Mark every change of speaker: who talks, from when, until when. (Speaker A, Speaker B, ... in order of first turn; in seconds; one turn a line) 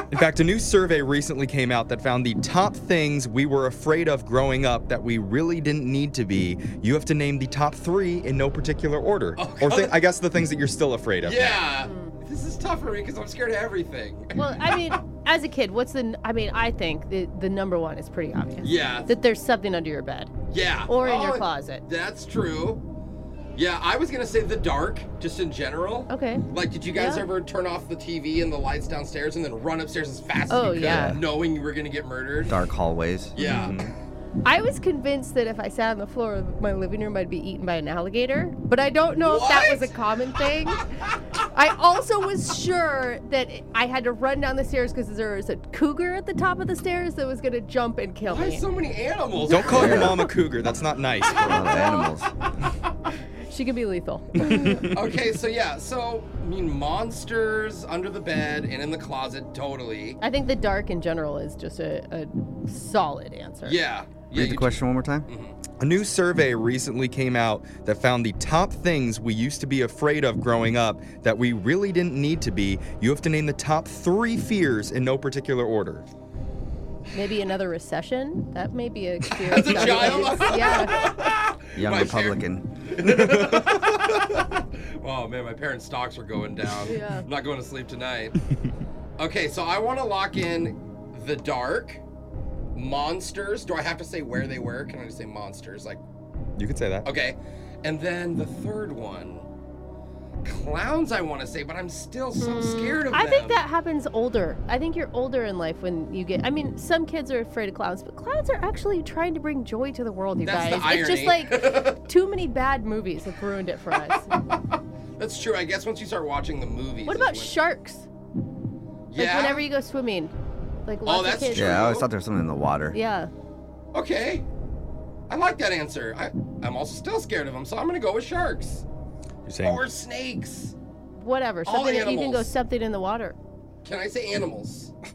Speaker A: 0.1-11.7
Speaker B: 9.3-9.9
Speaker B: 11.2-15.0
Speaker C: 11.8-12.1
Speaker C: 14.3-20.3
Speaker B: 18.6-19.1
Speaker B: 20.5-22.8
Speaker C: 20.9-21.8
Speaker B: 23.6-32.6
Speaker C: 26.1-27.3
Speaker C: 30.5-31.2
Speaker D: 30.7-31.2
Speaker D: 32.4-33.3
Speaker B: 33.3-33.8
Speaker C: 33.4-33.7
Speaker A: 33.4-33.9
Speaker C: 34.4-40.9
Speaker B: 39.1-39.9
Speaker C: 41.5-48.6
Speaker B: 48.2-50.1
Speaker A: 49.4-51.6
Speaker D: 49.5-50.2
Speaker C: 49.8-50.2
Speaker D: 51.3-52.3
Speaker C: 51.4-52.1
Speaker C: 53.5-54.9
Speaker B: 54.8-60.2
Speaker C: 60.2-63.8
Speaker B: 63.6-65.6
Speaker D: 64.3-65.2
Speaker A: 65.8-76.0
Speaker C: 77.1-81.0
Speaker B: 79.5-88.4
Speaker D: 81.7-82.6
Speaker C: 86.8-87.2
Speaker B: 89.2-92.0
Speaker B: 92.7-96.0
Speaker A: 96.6-97.1
Speaker B: 97.0-99.5
Speaker B: 100.4-103.6
Speaker C: 102.3-114.3
Speaker B: 110.4-112.0
Speaker B: 115.2-117.6
Speaker C: 117.0-118.1
Speaker B: 119.1-119.7
Speaker C: 119.2-120.3
Speaker C: 120.9-121.8
Speaker B: 121.0-122.0
Speaker D: 121.5-123.0
Speaker C: 122.9-123.3
Speaker B: 123.9-124.4
Speaker B: 125.3-128.8
Speaker A: 129.4-129.8
Speaker B: 129.6-130.8
Speaker C: 131.2-133.3
Speaker B: 131.6-132.5
Speaker B: 133.8-134.9